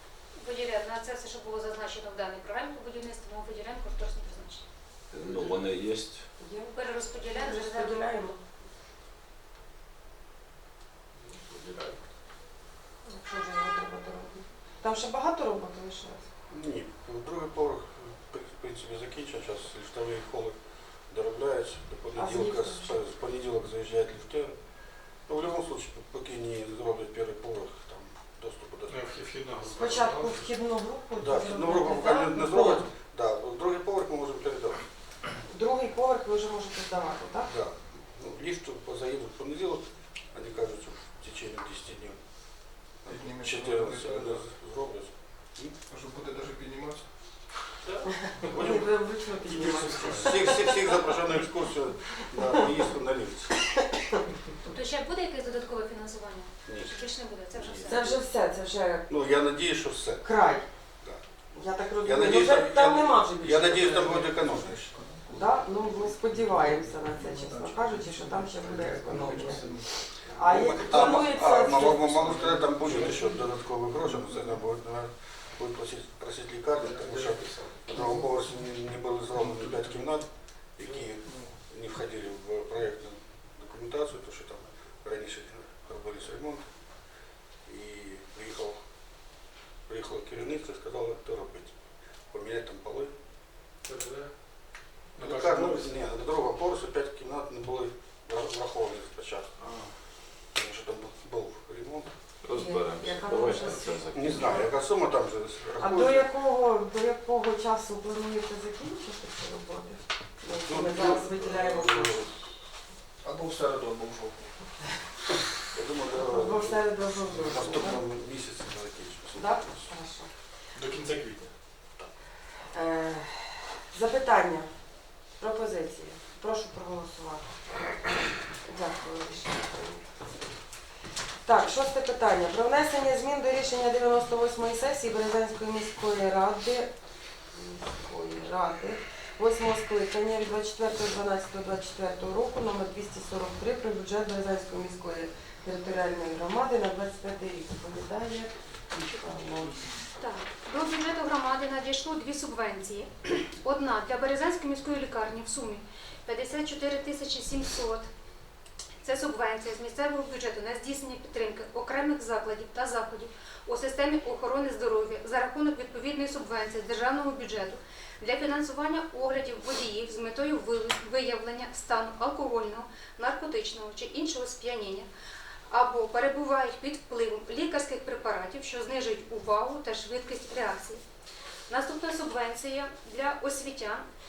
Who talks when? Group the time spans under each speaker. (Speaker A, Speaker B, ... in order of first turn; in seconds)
Speaker A: 0.3-4.6, 6.7-8.3, 54.6-58.2, 150.0-158.1, 159.0-175.1, 175.7-181.0, 181.7-184.1
Speaker B: 5.1-6.3, 102.4-104.6
Speaker C: 6.4-8.4, 13.1-16.3, 22.1-22.9, 29.8-32.9, 35.5-37.5, 48.5-51.0, 57.9-59.1, 60.2-60.7, 61.5-64.3, 65.3-72.1, 102.5-104.7, 105.8-112.2, 116.1-118.0, 119.3-120.3, 122.7-124.7, 125.4-127.6, 128.6-130.2, 131.4-136.9, 137.5-149.8
Speaker D: 11.2-12.1, 28.9-30.5, 47.9-48.5, 49.4-50.4, 93.8-96.0, 99.6-99.9, 120.7-121.5
Speaker E: 16.5-20.6, 21.1-24.6, 25.3-29.1, 31.2-34.9, 37.5-42.2, 43.0-45.8, 48.5-48.9, 49.9-53.5, 56.7-57.0, 57.5-58.0, 59.1-60.2, 62.0-64.9, 70.4-86.9, 87.7-88.8, 89.9-91.7, 92.3-93.1, 95.2-99.7, 100.2-102.1, 104.1-106.3, 110.6-112.4, 115.7-119.9
Speaker F: 43.0-44.5, 45.9-47.5, 64.0-74.6, 76.7-80.2, 80.8-81.6, 113.2-115.0